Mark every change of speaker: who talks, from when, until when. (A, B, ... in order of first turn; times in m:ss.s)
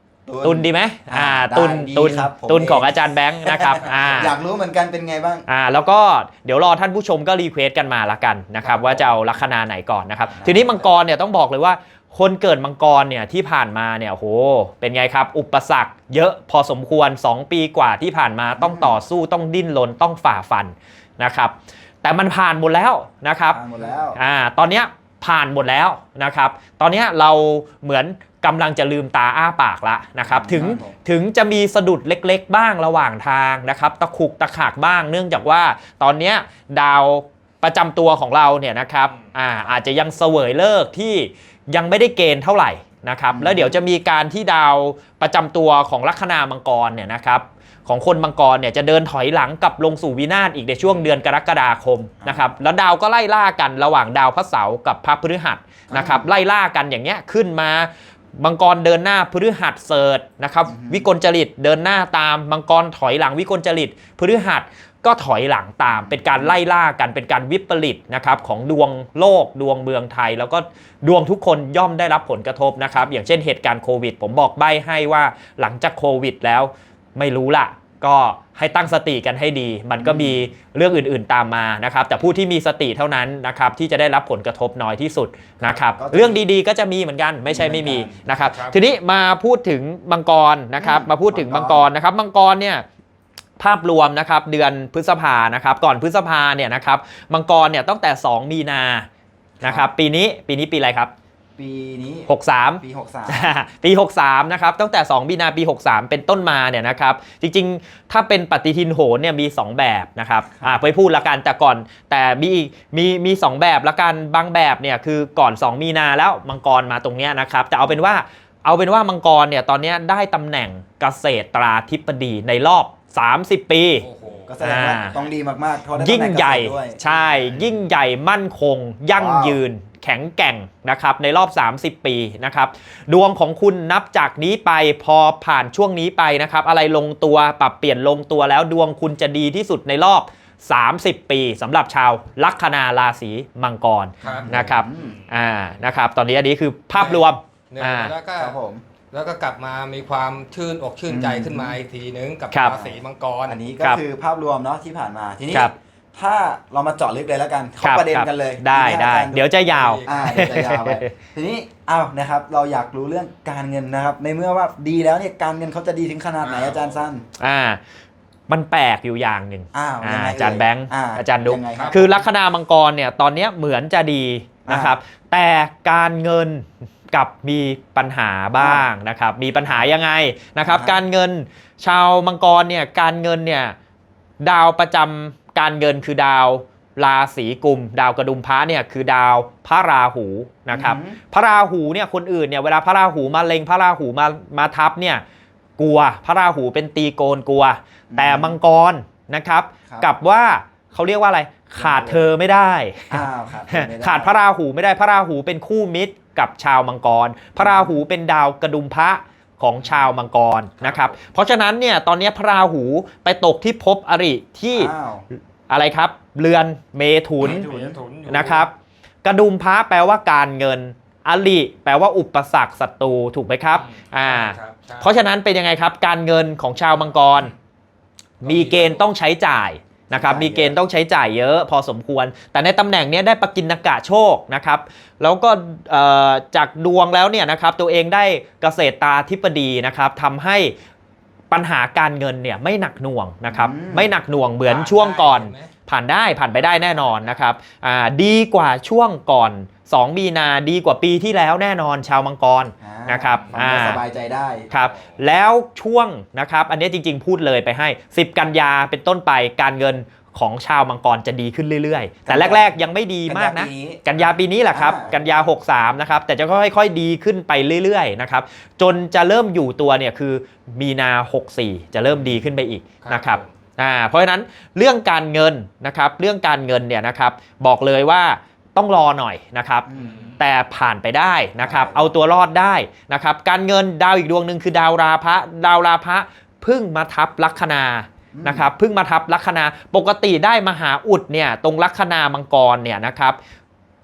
0:00.3-0:05.5 A
0:00.4-0:04.3 B
0:05.5-0:23.6 B
0:08.6-0:09.1 A
0:10.4-0:10.9 A
0:18.6-0:19.0 A
0:23.5-0:24.2 A
0:24.2-1:32.8 B
0:30.2-0:31.0 A
0:43.3-0:43.8 A
0:52.2-0:52.5 A
0:55.9-0:56.3 A
1:00.7-1:01.1 A
1:05.9-1:06.6 A
1:20.0-1:20.5 A
1:25.8-1:26.4 A
1:27.5-1:28.2 A
1:28.3-1:28.9 C
1:30.8-1:31.9 A
1:33.6-1:39.1 B
1:39.6-1:39.9 A
1:39.6-1:41.1 B
1:41.6-1:43.6 A
1:42.3-2:04.1 B
2:04.0-2:04.7 C
2:04.5-2:07.6 A
2:04.6-2:05.2 B
2:05.9-2:28.1 B
2:09.2-2:09.6 A
2:24.2-2:25.2 A
2:24.2-2:25.3 C
2:27.0-2:28.6 C
2:28.4-2:28.8 A
2:29.1-2:33.6 C
2:31.1-2:31.8 A
2:32.5-2:32.8 B
2:32.7-2:39.5 A
2:37.8-2:41.1 B
2:39.6-2:40.3 C
2:40.0-2:47.2 A
2:46.4-2:47.0 C
2:47.4-2:47.8 B
2:48.5-3:03.8 B
2:49.7-2:52.2 A
2:51.7-2:52.1 C
2:54.7-2:55.0 A
2:58.6-2:58.9 A
3:00.6-3:01.0 A
3:04.4-3:15.2 B
3:10.7-3:11.2 A
3:15.8-3:34.9 B
3:18.1-3:18.6 A
3:21.8-3:22.3 A
3:23.1-3:24.3 A
3:27.6-3:28.0 A
3:30.8-3:31.2 C
3:34.8-3:35.3 A
3:35.7-3:37.7 B
3:37.4-3:38.0 A
3:37.4-3:38.7 C
3:38.3-3:38.7 B
3:39.2-3:47.5 B
3:43.7-3:45.1 C
3:48.4-4:00.7 B
3:48.4-3:49.0 C
3:50.1-3:50.8 A
4:01.5-4:14.0 B
4:03.5-4:04.1 A
4:04.6-4:05.7 C
4:12.8-4:14.8 A
4:13.3-4:14.0 C
4:14.7-4:15.2 C
4:14.7-4:53.4 B
4:22.3-4:24.1 A
4:24.7-4:25.3 A
4:33.0-4:33.5 C
4:39.9-4:40.4 A
4:39.9-4:40.4 C
4:41.6-4:42.2 A
4:48.3-4:48.7 A